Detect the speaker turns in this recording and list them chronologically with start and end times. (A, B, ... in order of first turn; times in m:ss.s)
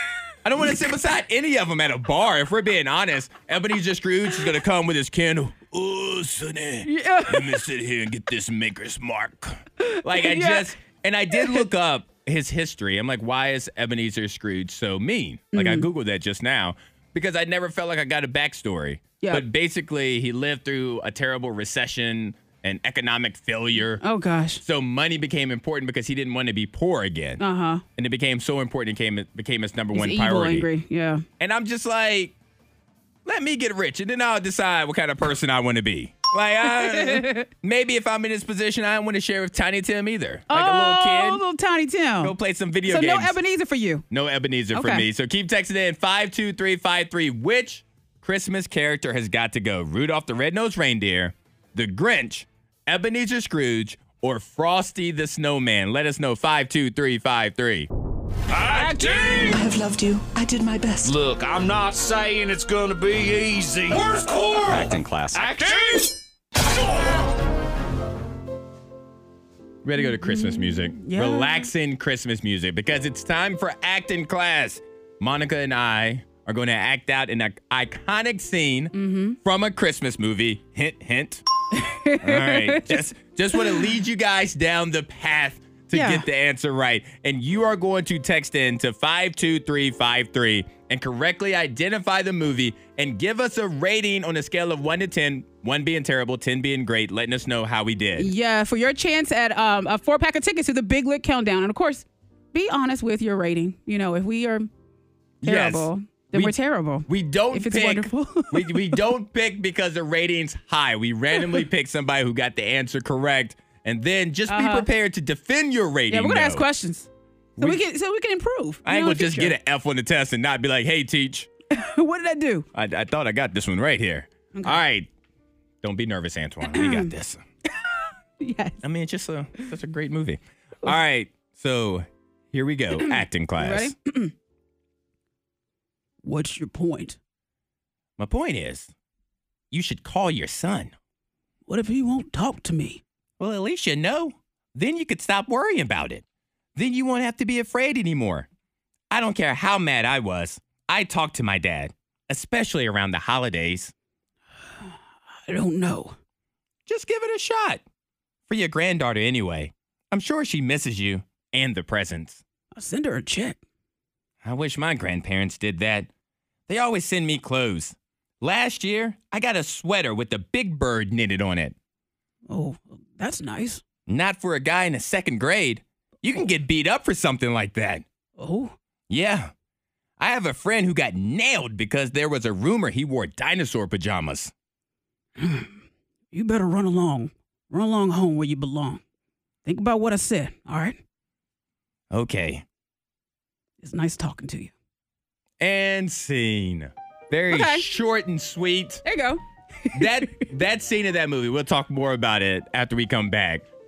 0:00.4-0:24.0 A
0:06.8-0:07.6 B
0:09.8-0:10.7 B
0:11.3-0:11.6 B
0:15.5-0:15.9 B
0:19.2-0:19.4 B
0:24.0-0:24.6 B
0:24.6-0:27.4 A
0:27.4-0:27.8 B
0:28.0-0:30.7 A
0:29.9-0:31.2 B
0:31.4-0:32.3 A
0:33.2-0:41.4 A
0:36.6-0:37.5 B
0:40.5-0:42.3 B
0:42.2-0:43.4 A
0:42.8-0:44.0 B
0:44.1-0:57.9 A
0:44.7-0:45.1 B
0:58.6-0:59.6 C
0:58.8-1:01.1 D
1:01.0-1:06.1 C
1:04.7-1:05.7 A
1:09.8-1:21.4 A
1:10.0-1:11.7 B
1:18.9-1:19.4 B
1:21.7-1:23.0 B
1:22.2-1:38.3 A
1:25.9-1:26.2 B
1:38.2-1:44.7 B
1:45.4-1:46.6 A
1:45.4-1:49.0 B
1:47.1-1:56.7 A
1:54.5-1:54.9 B
1:56.1-1:59.6 B
1:57.6-1:57.8 A
1:58.8-2:01.5 A
2:01.7-2:02.7 B
2:02.7-2:05.1 A
2:04.5-2:04.8 B
2:05.8-2:07.4 A
2:06.6-2:07.1 B
2:07.7-2:08.8 B
2:08.8-2:13.9 A
2:12.9-2:14.3 B
2:16.2-2:17.2 B
2:18.2-2:18.9 A
2:19.7-2:20.9 A
2:21.7-2:23.0 B
2:23.4-2:26.2 A
2:26.8-2:28.5 A
2:29.1-2:33.9 A
2:35.5-2:36.2 B
2:36.8-2:37.8 A
2:38.5-2:42.4 A
2:42.7-2:43.6 B
2:44.4-2:46.1 A
2:46.7-2:51.7 A
2:52.5-2:53.8 B
2:54.1-2:58.0 A
2:58.4-2:58.7 B
2:59.1-2:59.5 A
3:00.2-3:04.5 A
3:05.4-3:05.8 B
3:06.3-3:09.0 B
3:09.6-3:11.0 B
3:12.1-3:12.6 A
3:13.8-3:14.7 B
3:15.6-3:19.0 A
3:17.5-3:17.8 B
3:19.0-3:20.4 B
3:19.9-3:23.6 A